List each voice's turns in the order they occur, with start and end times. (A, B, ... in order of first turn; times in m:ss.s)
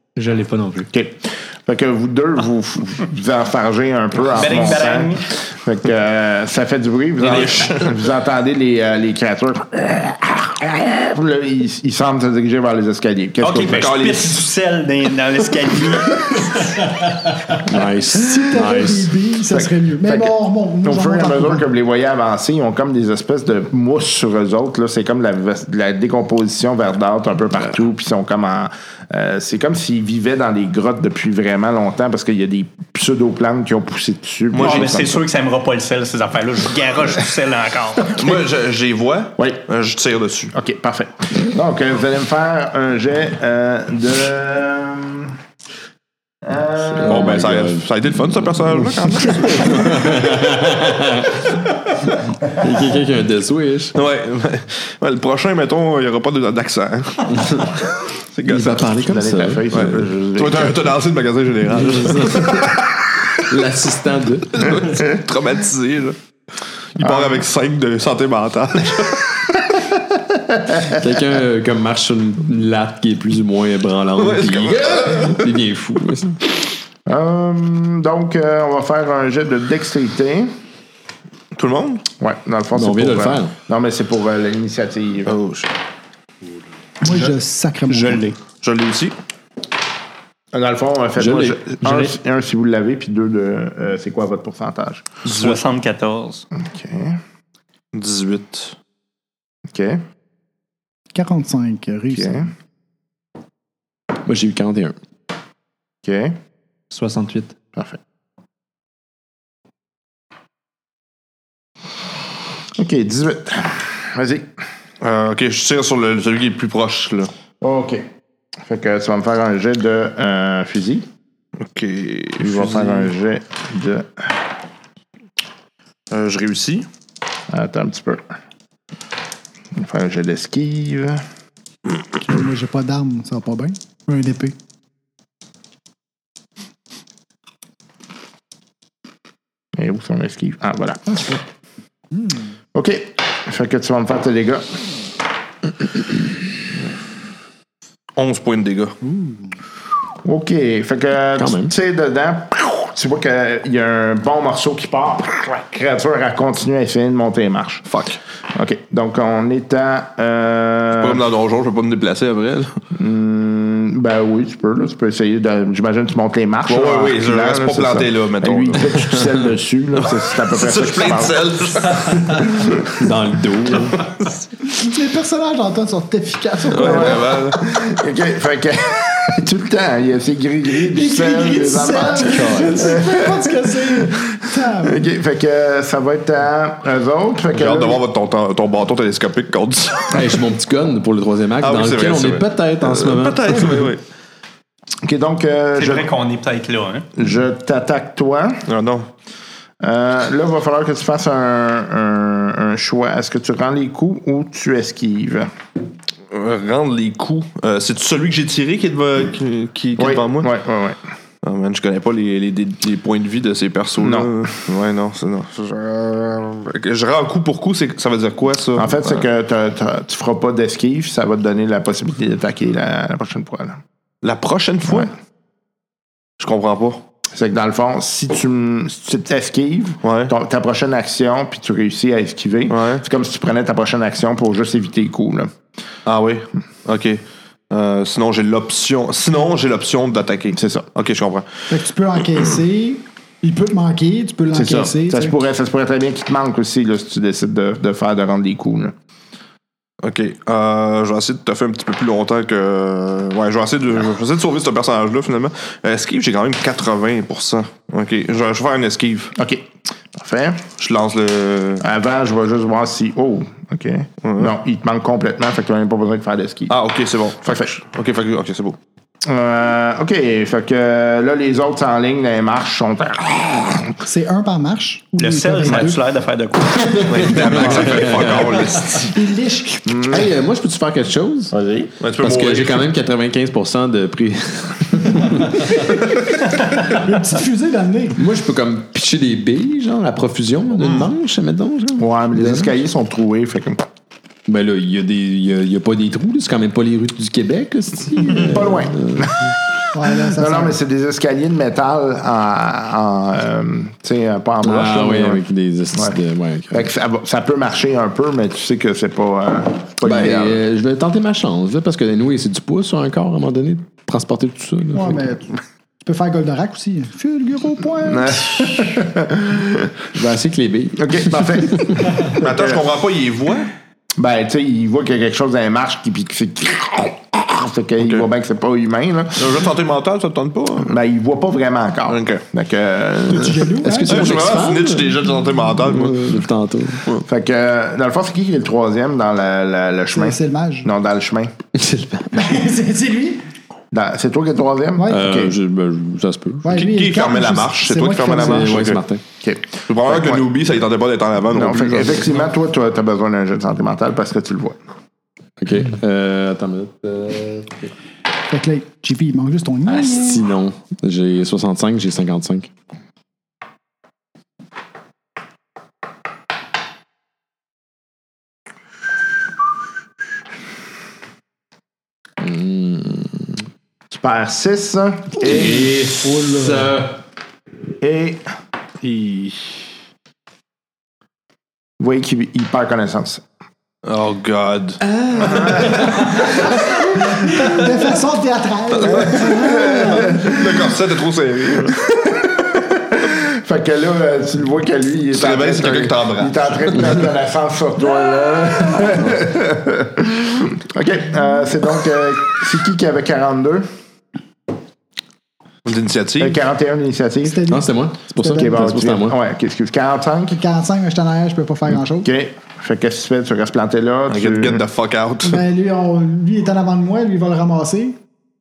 0:00.2-0:00.9 A
0:00.9-0:14.0 B
0:04.3-0:05.3 C
0:07.2-0:07.9 D
0:13.4-0:16.8 C
0:13.7-0:14.4 D
0:16.8-0:17.3 A
0:17.6-0:19.1 E
0:18.1-0:21.6 F
0:19.5-0:35.1 B
0:34.5-0:35.1 D
0:34.6-0:38.4 C
0:38.2-0:40.5 D
0:39.4-0:39.6 B
0:40.5-0:45.3 B
0:46.4-0:47.4 B
0:47.0-0:48.2 E
0:47.0-0:50.2 D
0:48.7-0:51.5 E
0:52.4-0:54.0 E
0:53.9-0:58.9 D
0:57.3-0:57.8 E
0:58.5-1:00.0 E
0:59.0-1:00.9 B
0:59.7-1:03.6 D
1:01.7-1:02.8 E
1:03.4-1:04.7 E
1:04.5-1:06.2 D
1:06.9-1:09.6 D
1:07.0-1:07.4 B
1:10.8-1:16.4 E
1:14.2-1:15.5 D
1:17.0-1:20.5 B
1:21.5-1:22.0 D
1:22.2-1:25.4 B
1:22.7-1:23.5 E
1:25.3-1:25.7 D
1:27.0-1:28.2 F
1:27.9-1:28.4 C
1:28.6-1:29.1 D
1:30.5-1:35.1 B
1:31.2-1:32.1 E
1:35.2-1:35.6 D
1:35.2-1:36.4 C
1:36.6-1:37.2 B
1:37.9-1:38.8 D
1:39.7-1:40.0 B
1:41.1-1:42.5 F
1:42.1-1:42.5 B
1:44.2-1:44.9 E
1:46.0-1:46.4 B
1:46.9-1:47.5 A
1:52.8-1:54.5 B
1:55.0-1:57.3 D
1:57.6-1:58.0 B
1:58.6-2:01.0 B
2:01.6-2:03.1 D
2:02.4-2:04.4 B
2:06.1-2:06.8 D
2:07.5-2:08.3 B
2:09.7-2:11.2 B
2:12.2-2:14.5 F
2:19.8-2:21.4 B
2:22.1-2:22.4 F
2:22.7-2:24.8 B
2:28.2-2:29.0 D
2:29.0-2:29.4 F
2:30.2-2:37.9 B
2:31.4-2:31.7 E
2:37.8-2:38.2 D
2:38.5-2:41.2 B
2:40.9-2:42.8 D
2:42.9-2:52.8 B
2:46.6-2:49.1 D
2:50.1-2:52.9 D
2:52.9-2:54.0 E
2:54.7-2:57.4 F
2:56.7-2:57.7 D
2:56.7-3:08.0 B
3:00.8-3:05.0 F
3:02.1-3:02.9 E
3:07.5-3:10.3 D
3:10.1-3:13.9 E
3:11.6-3:14.0 D
3:15.0-3:16.1 B
3:15.8-3:17.1 C
3:17.2-3:18.6 B
3:18.6-3:19.1 D
3:19.8-3:25.5 B
3:26.3-3:30.5 D
3:30.0-3:31.0 B
3:31.4-3:39.2 D
3:34.0-3:34.3 B
3:38.8-3:43.8 B
3:44.2-3:45.1 D
3:46.4-3:47.0 D
3:47.3-3:55.5 B
3:50.0-3:50.3 D
3:52.7-3:53.0 D
3:56.0-4:01.7 D
4:00.5-4:00.9 B
4:01.7-4:05.3 F
4:04.5-4:08.9 B
4:10.0-4:19.3 D
4:19.4-4:20.7 B
4:20.8-4:21.8 D
4:21.8-4:26.8 B
4:24.2-4:24.5 D
4:26.7-4:28.8 D
4:27.4-4:27.7 B
4:29.2-4:34.0 B
4:34.0-4:36.0 F
4:35.2-4:37.8 C
4:37.0-4:39.1 D
4:37.8-4:38.3 E
4:39.0-4:40.1 F
4:39.8-4:40.3 B
4:40.1-4:46.0 E
4:42.0-4:42.9 D
4:46.8-4:48.2 F
4:48.2-4:52.8 E
4:50.8-4:51.1 D
4:52.0-4:53.9 B
4:54.5-4:59.5 E
4:58.2-4:59.5 B
4:59.9-5:00.8 F
5:00.1-5:06.2 B
5:04.6-5:06.9 E
5:06.7-5:10.6 B
5:10.0-5:15.3 E
5:14.9-5:19.0 F
5:18.0-5:19.9 B
5:20.1-5:22.1 E
5:21.0-5:22.8 B
5:22.3-5:23.7 D
5:24.2-5:29.6 B
5:29.4-5:30.9 D
5:30.8-5:33.7 B
5:32.1-5:32.4 D
5:33.3-5:34.6 F
5:33.8-5:35.2 E
5:34.0-5:37.2 D
5:35.7-5:37.1 E
5:37.2-5:41.5 B
5:40.1-5:40.9 F
5:41.7-5:42.6 E
5:42.3-5:43.4 F
5:43.9-5:45.6 B
5:45.0-5:45.3 F
5:45.1-5:46.8 E
5:46.6-5:48.9 F
5:46.7-5:49.0 D
5:48.2-5:49.2 E
5:49.4-5:50.5 B
5:49.9-5:52.3 D
5:51.5-5:54.8 B
5:55.6-5:57.9 E
5:58.5-6:00.4 F
5:59.8-6:02.7 E
6:12.4-6:13.6 E
6:14.1-6:15.9 B
6:15.4-6:17.2 E
6:15.5-6:16.9 A
6:18.0-6:18.4 B
6:19.0-6:19.3 D
6:22.0-6:23.4 B
6:24.0-6:26.7 D
6:25.4-6:26.5 B
6:27.5-6:30.5 F
6:28.9-6:32.0 D
6:29.0-6:30.7 B
6:31.8-6:43.9 B
6:35.3-6:37.2 D
6:45.8-6:46.6 D
6:46.4-6:47.6 B
6:47.4-6:48.9 F
6:47.7-6:49.4 E
6:48.5-6:50.6 B
6:50.5-6:52.3 F
6:52.2-6:54.8 B
6:54.3-6:55.6 D
6:55.4-6:58.2 F